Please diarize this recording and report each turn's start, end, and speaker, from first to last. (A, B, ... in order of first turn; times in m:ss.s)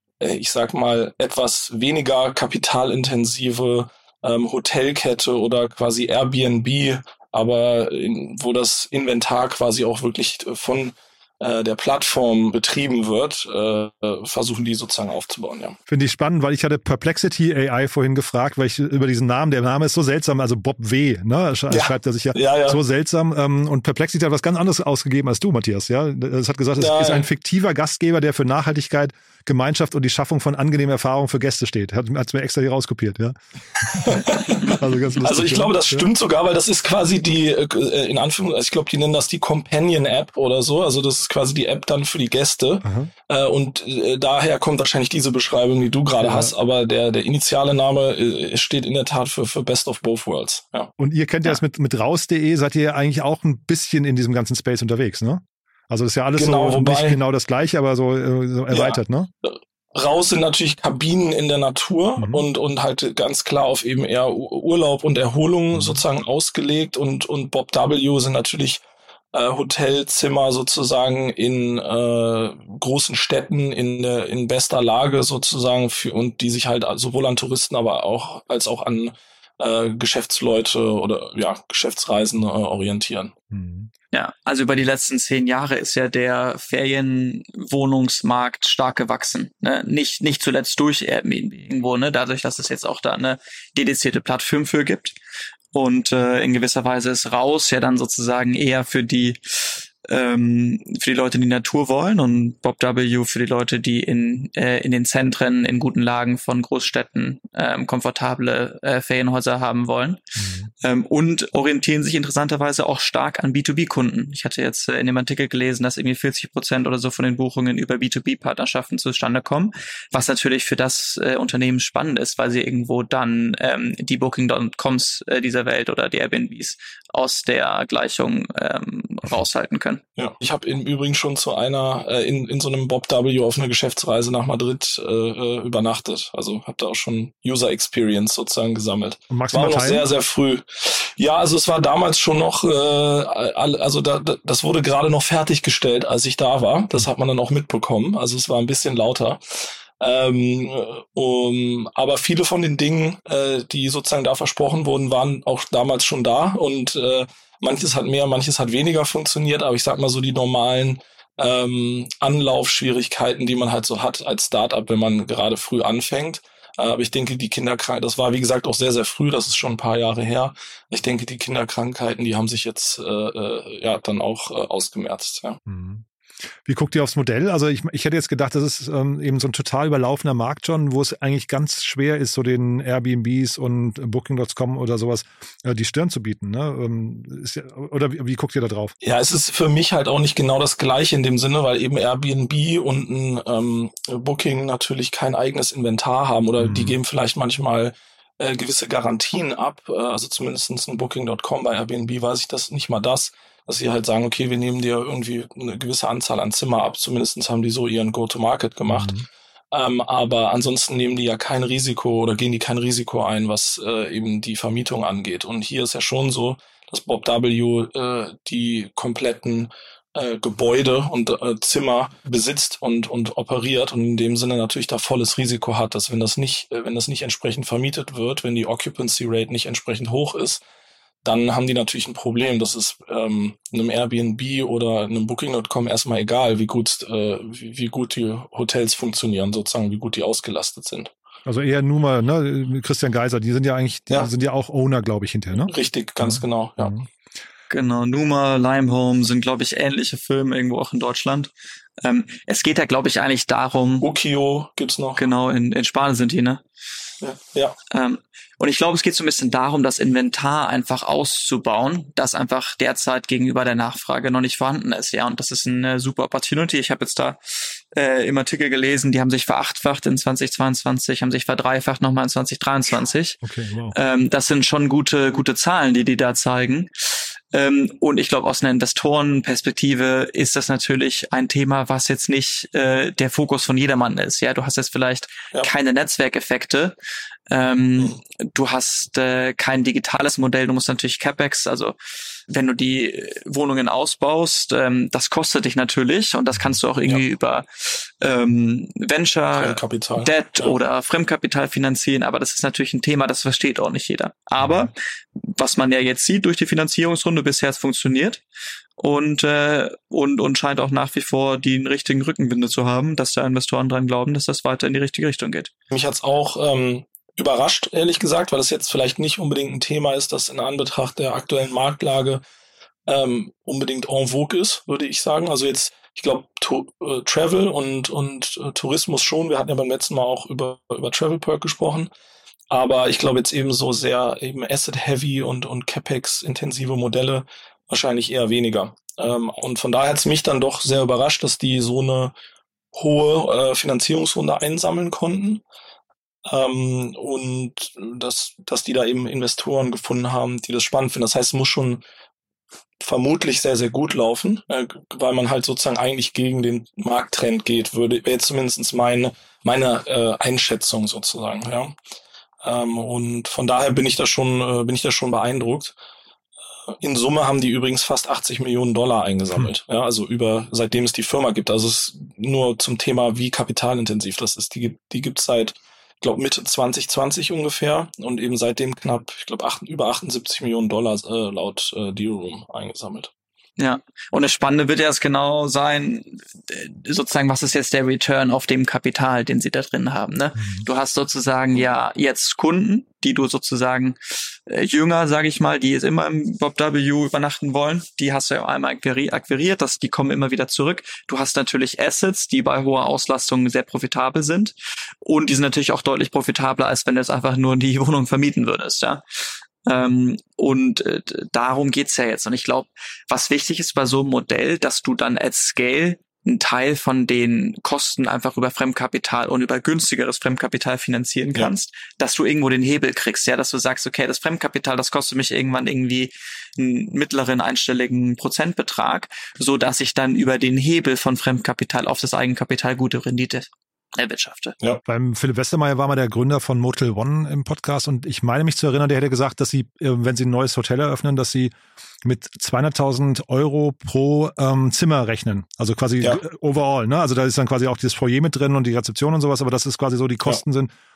0:00.2-0:15.8 A
0:15.9-0:36.1 B
0:21.7-0:22.8 A
0:26.8-0:27.2 A
0:33.8-0:50.9 A
0:42.8-0:43.1 B
0:46.2-0:46.5 B
0:51.0-0:59.3 B
0:56.4-0:57.2 A
0:58.7-1:08.8 A
1:02.2-1:02.4 B
1:05.7-1:06.0 B
1:09.3-1:23.3 A
1:23.5-1:23.9 B
1:24.1-1:35.1 C
1:35.7-2:10.0 C
1:50.4-1:50.7 B
2:10.2-2:55.6 A
2:19.3-2:20.0 B
2:55.7-2:56.0 B
2:56.6-3:08.9 B
3:09.0-3:29.1 A
3:16.6-3:17.0 B
3:28.9-3:29.2 B
3:29.7-3:50.6 A
3:51.2-4:01.1 A
4:01.4-4:07.0 B
4:05.7-4:06.9 A
4:07.7-4:14.0 C
4:14.0-4:15.2 A
4:15.2-4:16.6 C
4:17.2-4:17.8 A
4:17.9-4:33.4 C
4:33.4-4:34.0 B
4:33.9-4:46.9 C
4:47.5-4:52.0 C
4:52.5-5:08.4 C
4:59.5-5:00.8 A
5:09.0-5:15.7 C
5:15.9-5:22.4 A
5:23.1-5:32.1 A
5:32.7-5:42.3 A
5:42.9-5:45.6 A
5:46.4-5:52.0 A
5:53.0-6:02.0 A
6:02.6-6:05.9 A
6:07.0-6:23.3 A
6:23.8-6:49.2 C
6:30.6-6:30.8 B
6:49.8-7:14.8 C
7:15.0-7:30.9 B